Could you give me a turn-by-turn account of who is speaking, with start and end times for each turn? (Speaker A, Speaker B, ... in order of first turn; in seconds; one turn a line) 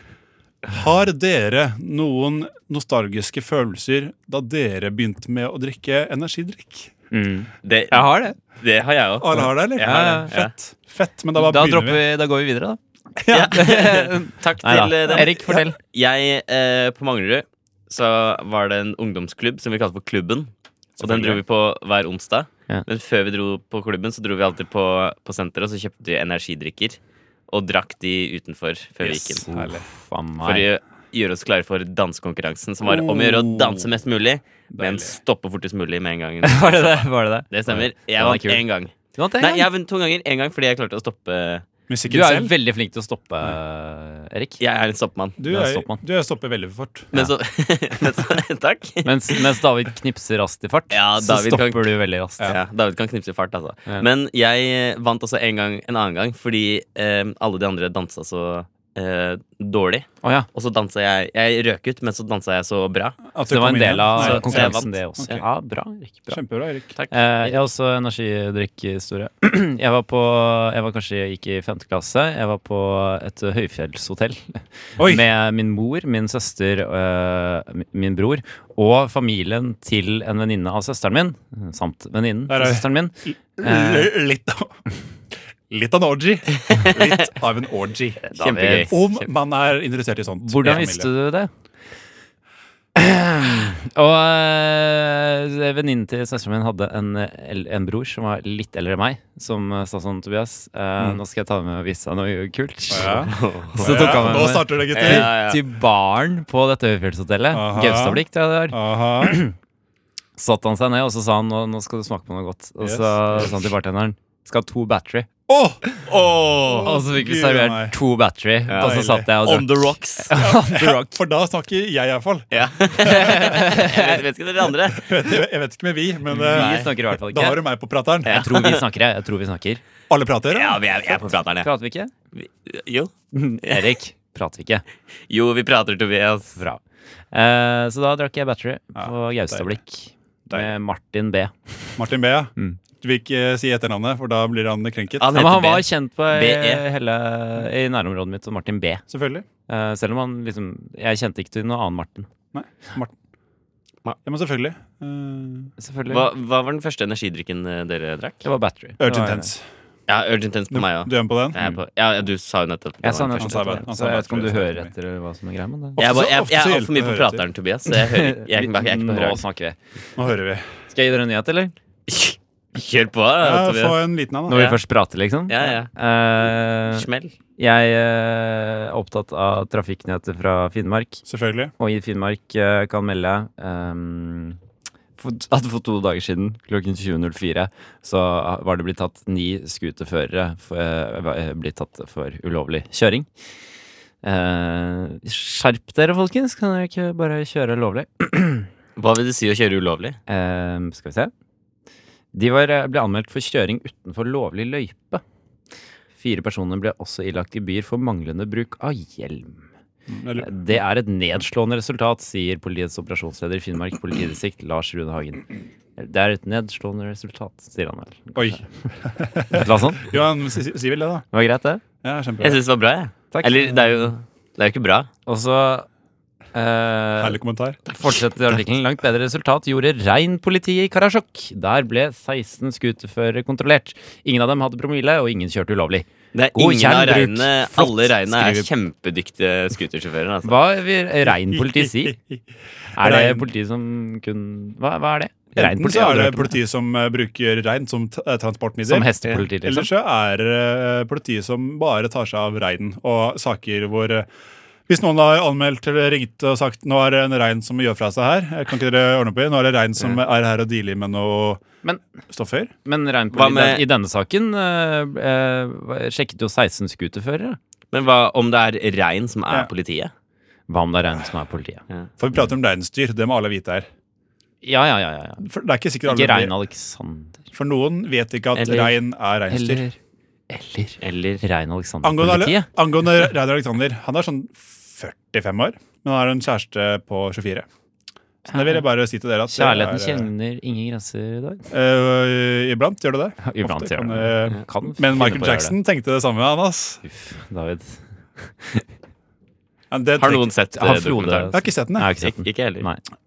Speaker A: 0.7-6.9
Speaker B: 7.1-8.3
Speaker C: 7.6-10.5
Speaker A: 9.2-12.0
Speaker B: 9.8-10.3
Speaker B: 11.4-12.8
Speaker A: 13.2-13.6
Speaker C: 13.3-29.4
Speaker B: 13.5-15.8
Speaker A: 15.1-15.6
Speaker A: 21.0-21.4
Speaker A: 29.0-29.9
Speaker B: 29.1-30.7
Speaker C: 30.4-41.6
Speaker A: 32.9-33.9
Speaker A: 34.7-35.2
Speaker B: 36.4-39.7
Speaker A: 41.9-42.5
Speaker B: 42.1-44.6
Speaker C: 44.6-45.4
Speaker A: 45.4-47.1
Speaker B: 45.5-46.0
Speaker C: 47.1-49.4
Speaker B: 49.0-52.5
Speaker C: 50.9-63.2
Speaker A: 63.3-65.4
Speaker B: 63.5-66.4
Speaker C: 64.2-65.4
Speaker A: 66.3-66.9
Speaker C: 67.0-67.5
Speaker B: 67.1-84.1
Speaker A: 75.0-75.2
Speaker A: 82.5-84.8
Speaker A: 85.7-91.1
Speaker C: 86.7-87.0
Speaker B: 88.2-88.9
Speaker C: 88.4-89.2
Speaker B: 90.4-91.5
Speaker B: 93.0-109.5
Speaker A: 102.9-105.3
Speaker C: 103.2-105.6
Speaker A: 107.5-109.4
Speaker B: 110.4-115.3
Speaker A: 112.8-113.5
Speaker A: 115.5-115.8
Speaker C: 116.0-116.9
Speaker A: 116.7-118.0
Speaker B: 116.8-121.1
Speaker C: 118.7-120.3
Speaker A: 118.8-119.3
Speaker A: 120.3-123.6
Speaker C: 122.5-125.1
Speaker B: 123.0-124.2
Speaker A: 124.9-128.5
Speaker B: 126.3-127.6
Speaker C: 126.3-126.9
Speaker B: 128.2-129.8
Speaker C: 128.2-128.8
Speaker A: 130.1-130.8
Speaker C: 130.5-131.7
Speaker B: 131.6-132.1
Speaker C: 132.3-133.1
Speaker B: 133.3-134.8
Speaker C: 135.3-136.6
Speaker B: 136.6-136.8
Speaker B: 137.3-141.9
Speaker A: 138.9-139.8
Speaker A: 142.0-145.3
Speaker C: 145.2-146.8
Speaker B: 145.3-149.0
Speaker A: 149.1-149.4
Speaker B: 149.7-152.3
Speaker A: 152.5-153.1
Speaker A: 154.2-155.7
Speaker B: 155.8-156.3
Speaker C: 156.1-158.4
Speaker B: 158.4-159.5
Speaker A: 159.0-159.7
Speaker C: 160.1-163.6
Speaker A: 160.7-161.6
Speaker B: 163.0-166.0
Speaker A: 163.4-164.9
Speaker A: 166.0-167.4
Speaker C: 166.0-169.4
Speaker B: 167.9-169.8
Speaker A: 170.2-170.7
Speaker B: 170.9-171.7
Speaker C: 172.1-174.0
Speaker A: 173.4-174.7
Speaker B: 174.5-177.1
Speaker C: 174.5-174.8
Speaker C: 175.5-175.9
Speaker C: 176.9-177.3
Speaker B: 177.6-181.2
Speaker A: 181.2-181.7
Speaker B: 181.8-184.6
Speaker B: 185.2-193.3
Speaker B: 194.2-198.7
Speaker C: 198.9-200.2
Speaker B: 200.3-201.3
Speaker B: 202.3-205.2
Speaker B: 206.2-209.6
Speaker A: 210.1-210.5
Speaker B: 210.4-218.9
Speaker A: 218.3-221.2
Speaker B: 219.5-220.1
Speaker B: 221.3-221.8
Speaker A: 222.0-222.6
Speaker C: 222.4-225.1
Speaker B: 223.3-223.8
Speaker B: 225.2-225.9
Speaker B: 226.5-238.7
Speaker A: 227.2-227.8
Speaker C: 236.3-240.6
Speaker B: 240.4-242.2
Speaker A: 241.2-242.4
Speaker A: 242.9-243.5
Speaker B: 242.9-246.5
Speaker A: 245.6-254.3
Speaker B: 248.8-249.9
Speaker A: 254.9-261.6
Speaker A: 262.3-262.7
Speaker B: 262.8-267.6
Speaker C: 263.3-263.8
Speaker C: 267.9-270.1
Speaker B: 270.7-271.8
Speaker A: 272.2-273.9
Speaker B: 274.6-275.5
Speaker A: 275.4-276.6
Speaker B: 276.0-277.4
Speaker A: 277.5-279.8
Speaker C: 278.5-278.9
Speaker B: 279.5-280.0
Speaker B: 280.5-282.7
Speaker C: 281.0-281.4
Speaker A: 282.0-287.7
Speaker A: 288.5-290.3
Speaker B: 288.5-288.8
Speaker B: 289.5-291.7
Speaker A: 291.7-297.0
Speaker B: 293.4-295.8
Speaker B: 297.0-298.9
Speaker A: 299.9-300.5
Speaker C: 300.2-301.5
Speaker B: 300.7-303.0
Speaker A: 301.5-302.1
Speaker C: 302.2-302.9